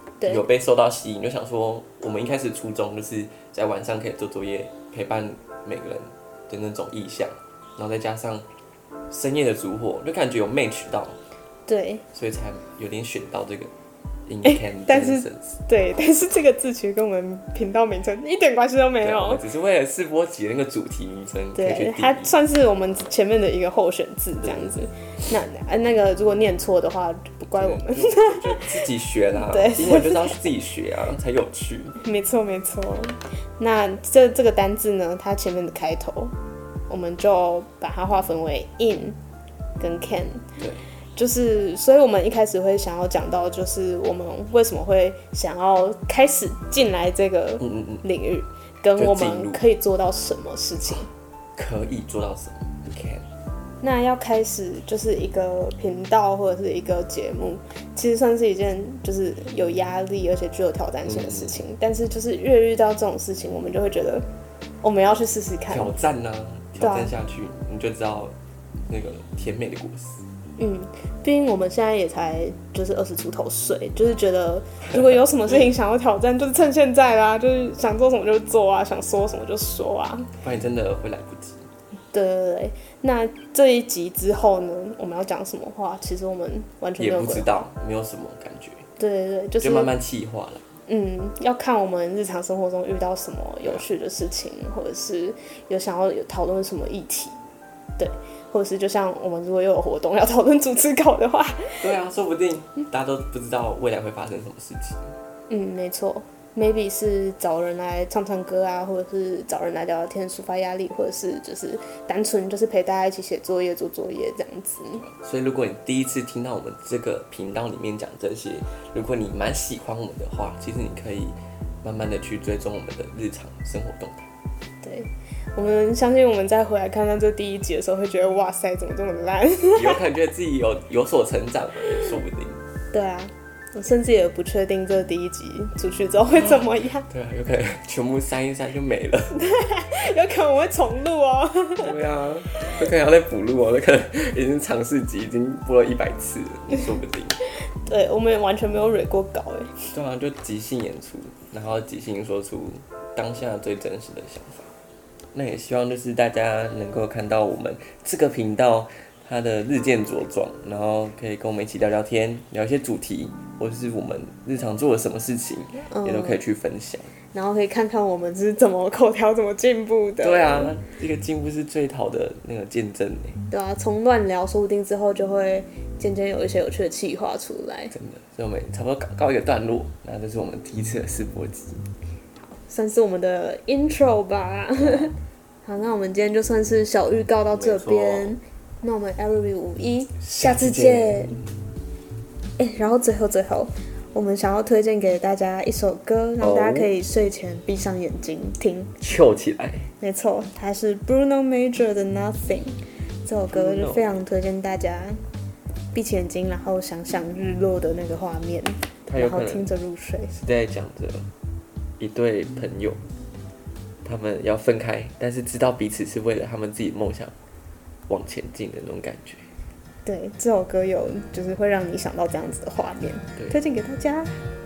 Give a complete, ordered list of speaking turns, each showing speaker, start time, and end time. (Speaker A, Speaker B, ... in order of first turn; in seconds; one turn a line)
Speaker A: 0.2-8.4
Speaker A: 9.1-11.2
Speaker B: 11.7-12.0
Speaker A: 12.1-13.7
Speaker A: 14.3-15.6
Speaker B: 14.4-19.4
Speaker A: 19.0-22.3
Speaker B: 21.5-28.8
Speaker A: 24.4-24.7
Speaker A: 27.5-32.0
Speaker B: 29.3-30.4
Speaker B: 32.0-36.3
Speaker B: 36.9-39.2
Speaker B: 39.8-40.4
Speaker A: 40.6-40.8
Speaker B: 41.1-51.1
Speaker A: 47.6-48.0
Speaker A: 48.9-49.6
Speaker A: 51.5-53.2
Speaker B: 53.8-64.3
Speaker A: 61.0-61.6
Speaker B: 64.8-65.9
Speaker A: 65.7-68.3
Speaker B: 66.8-67.1
Speaker A: 68.9-70.2
Speaker B: 70.6-80.3
Speaker A: 80.4-81.7
Speaker B: 82.1-87.7
Speaker A: 87.0-88.8
Speaker B: 89.0-89.9
Speaker A: 89.6-90.6
Speaker B: 90.9-97.4
Speaker B: 98.0-101.9
Speaker A: 101.8-105.1
Speaker B: 105.5-115.0
Speaker A: 115.0-124.3
Speaker B: 124.8-130.0
Speaker A: 129.8-132.6
Speaker B: 132.9-137.1
Speaker A: 137.1-139.3
Speaker B: 139.3-141.9
Speaker A: 141.8-147.4
Speaker B: 147.8-149.9
Speaker A: 149.9-154.7
Speaker A: 155.3-167.1
Speaker B: 165.9-166.4
Speaker B: 167.3-170.8
Speaker A: 170.2-173.4
Speaker B: 173.5-177.9
Speaker A: 177.9-181.9
Speaker B: 182.6-191.4
Speaker A: 184.8-185.1
Speaker A: 187.5-188.4
Speaker A: 190.2-191.5
Speaker B: 192.6-198.9
Speaker A: 196.4-196.9
Speaker A: 199.0-199.9
Speaker B: 200.0-202.8
Speaker B: 203.2-205.2
Speaker A: 203.5-204.2
Speaker B: 205.9-210.4
Speaker A: 209.1-209.7
Speaker A: 210.3-211.3
Speaker A: 212.0-213.0
Speaker A: 214.0-217.3
Speaker A: 218.1-219.5
Speaker B: 220.0-224.4